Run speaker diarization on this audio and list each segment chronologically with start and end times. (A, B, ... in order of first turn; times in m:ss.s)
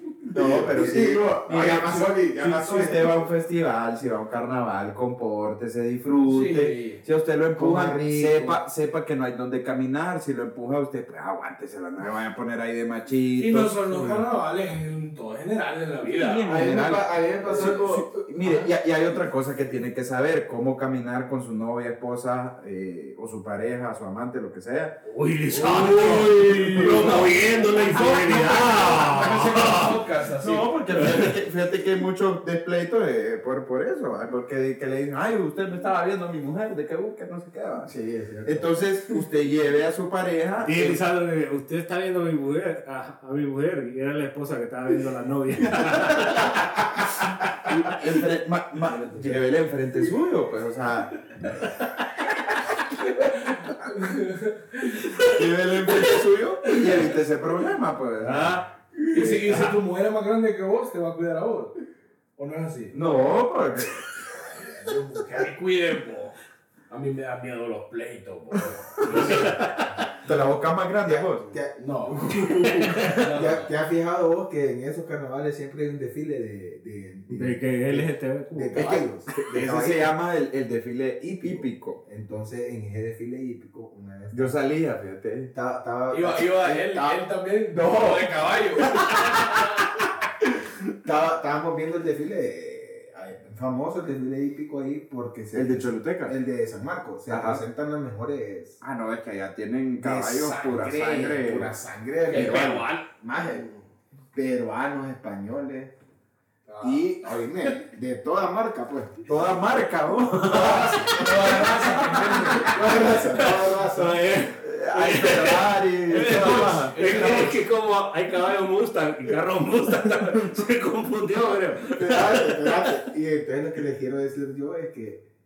0:00.3-0:14.2 A
0:00.3-0:03.3 B
0:06.2-0:07.0 C
0:07.6-0:08.6 B
0:13.4-0:16.6 C
0:16.0-0:25.0 A
0:16.4-0:18.2 B
0:17.5-0:18.6 C
0:25.0-0:30.0 D
0:25.5-0:31.0 C
0:26.0-0:27.2 A
0:30.4-0:37.9 A
0:31.0-0:31.4 D
0:37.8-0:38.8 B
0:38.4-0:41.0 A
0:40.6-0:47.0 D
0:47.7-0:51.4 A
0:48.9-0:49.2 C
0:53.1-0:55.2 C
0:55.2-0:58.6 A
0:58.2-0:58.6 D
0:59.1-0:59.6 B
0:59.1-1:01.8 C
1:02.4-1:03.3 C
1:02.9-1:04.1 A
1:04.3-1:06.4 C
1:06.9-1:09.7 C
1:09.0-1:09.4 A
1:09.0-1:09.5 B
1:09.2-1:09.9 D
1:10.2-1:11.5 A
1:11.0-1:20.1 B
1:11.8-1:13.7 C
1:12.6-1:13.1 D
1:17.3-1:18.9 D
1:18.7-1:22.0 A
1:21.4-1:24.6 B
1:24.3-1:25.5 A
1:25.5-1:27.2 B
1:26.1-1:29.8 C
1:27.7-1:28.4 B
1:31.0-1:38.8 B
1:35.5-1:36.4 A
1:37.3-1:37.6 A
1:38.8-1:41.7 A
1:40.0-1:43.8 B
1:42.3-1:43.1 C
1:42.3-1:42.8 A
1:44.3-1:45.9 B
1:46.7-1:47.1 C
1:46.8-1:49.2 B
1:49.3-1:52.4 A
1:50.4-1:51.7 B
1:50.5-2:03.0 D
1:51.0-1:53.1 C
1:52.6-1:54.3 B
1:54.6-1:57.5 A
1:56.1-1:57.6 C
2:01.9-2:05.2 B